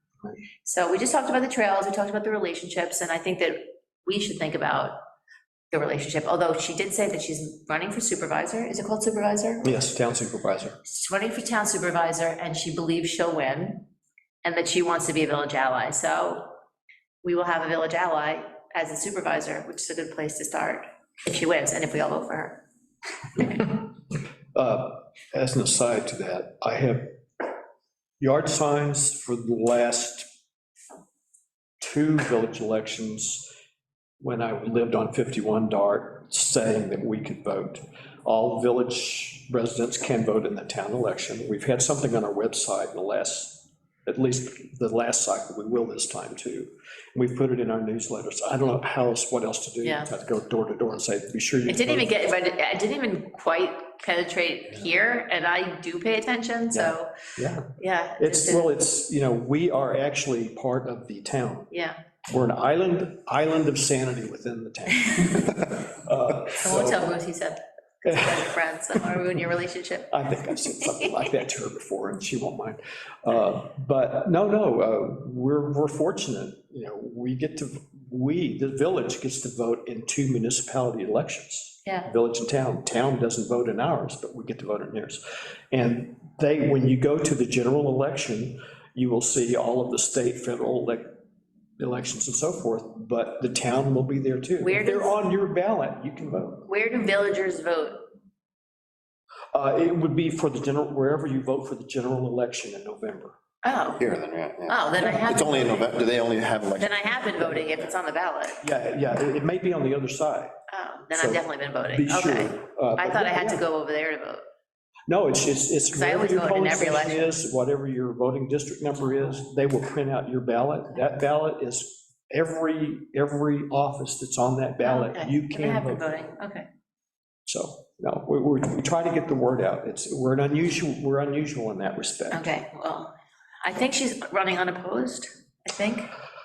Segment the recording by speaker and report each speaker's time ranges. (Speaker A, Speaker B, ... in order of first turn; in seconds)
Speaker A: 0.6-5.0, 5.7-9.8, 10.8-13.9, 14.4-16.6, 17.2-22.6, 23.4-23.6, 49.8-50.1, 51.7-57.1, 57.8-58.7, 61.7-62.0, 66.6-70.2, 94.6-95.2, 96.7-98.1, 103.6-104.0, 104.7-105.8, 106.8-108.6, 110.7-114.4, 115.9-117.3, 124.8-126.7, 132.3-136.1
Speaker B: 9.6-10.8, 23.4-23.7, 24.5-27.5, 28.2-30.3, 31.8-33.5, 34.2-52.1, 56.7-61.7, 62.3-67.1, 68.1-68.3, 70.1-91.1, 91.8-96.7, 99.5-103.3, 108.6-110.5, 111.1-113.6, 115.1-126.1, 127.5-132.6
Speaker C: 104.0-107.2